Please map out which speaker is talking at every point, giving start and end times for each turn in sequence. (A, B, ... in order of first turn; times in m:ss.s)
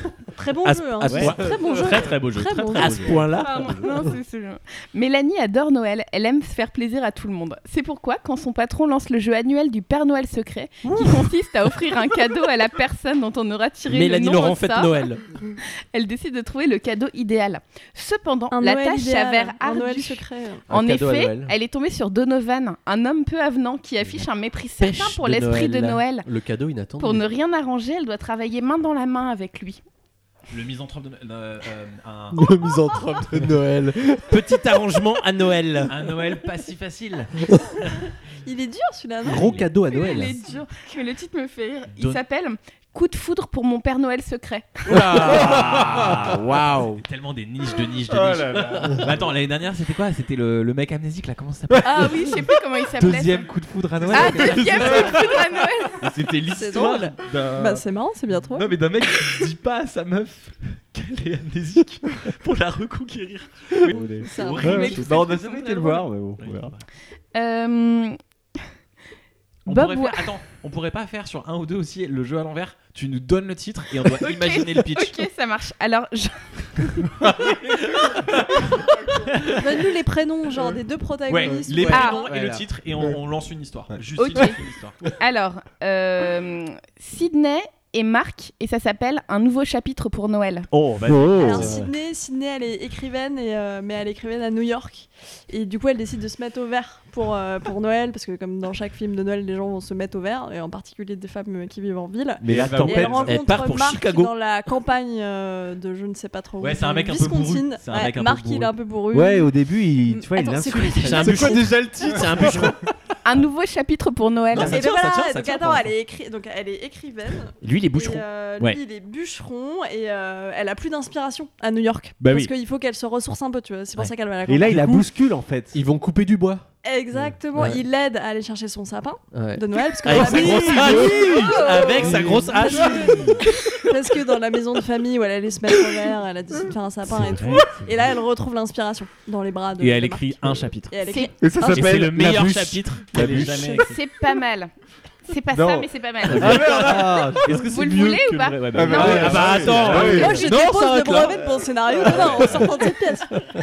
0:00.3-0:03.6 A
0:00.6-0:03.2 B
0:01.0-0:01.9 C
0:02.7-0:04.0 C
0:03.3-0:15.1 D
0:13.9-0:15.2 C
0:15.9-0:26.2 D
0:18.5-0:20.6 A
0:20.7-0:21.5 E
0:24.8-0:27.2 E
0:27.0-0:29.8 D
0:30.5-0:32.4 B
0:32.3-0:34.4 E
0:34.5-0:35.9 C
0:34.7-0:35.0 B
0:35.8-0:37.6 B
0:38.4-0:39.6 A
0:39.3-0:40.3 E
0:39.3-0:39.6 B
0:39.5-0:40.3 C
0:39.9-0:45.1 D
0:44.9-0:52.4 B
0:45.1-0:45.8 C
0:48.1-0:48.9 F
0:51.8-0:53.5 D
0:53.0-0:57.8 B
0:54.1-0:56.0 D
0:56.5-0:58.7 A
0:58.5-1:06.8 B
1:03.8-1:06.7 F
1:03.9-1:05.0 A
1:04.5-1:06.0 D
1:07.3-1:08.6 D
1:09.6-1:15.2 B
1:09.7-1:10.3 D
1:14.0-1:17.2 D
1:17.2-1:18.5 B
1:19.4-1:22.4 A
1:21.3-1:25.0 B
1:21.9-1:22.6 C
1:21.9-1:22.3 D
1:24.2-1:24.6 D
1:25.2-1:30.7 D
1:30.7-1:31.7 F
1:31.0-1:31.8 B
1:31.3-1:49.5 A
1:42.4-1:43.6 F
1:42.4-1:44.3 B
1:43.3-1:44.0 C
1:46.6-1:48.7 B
1:49.1-1:52.6 F
1:50.0-1:52.2 A
1:51.0-1:52.8 E
1:51.1-1:52.6 C
1:53.2-1:54.8 D
1:54.5-1:55.9 B
1:54.5-2:05.1 A
1:57.6-1:58.8 B
2:02.2-2:02.5 B
2:04.4-2:05.8 F
2:05.7-2:06.6 E
2:06.8-2:21.7 A
2:09.3-2:11.0 E
2:10.0-2:13.4 B
2:10.1-2:10.8 C
2:11.0-2:11.4 F
2:12.0-2:12.4 F
2:12.1-2:12.4 C
2:17.1-2:17.8 B
2:19.8-2:21.0 B
2:21.1-2:21.9 D
2:21.4-2:23.8 F
2:21.7-2:24.0 B
2:23.6-2:24.7 D
2:25.3-2:27.0 D
2:25.5-2:27.7 F
2:26.2-2:31.3 B
2:27.5-2:30.8 D
2:28.7-2:30.5 F
2:30.0-2:33.4 A
2:31.9-2:32.8 F
2:32.1-2:32.6 B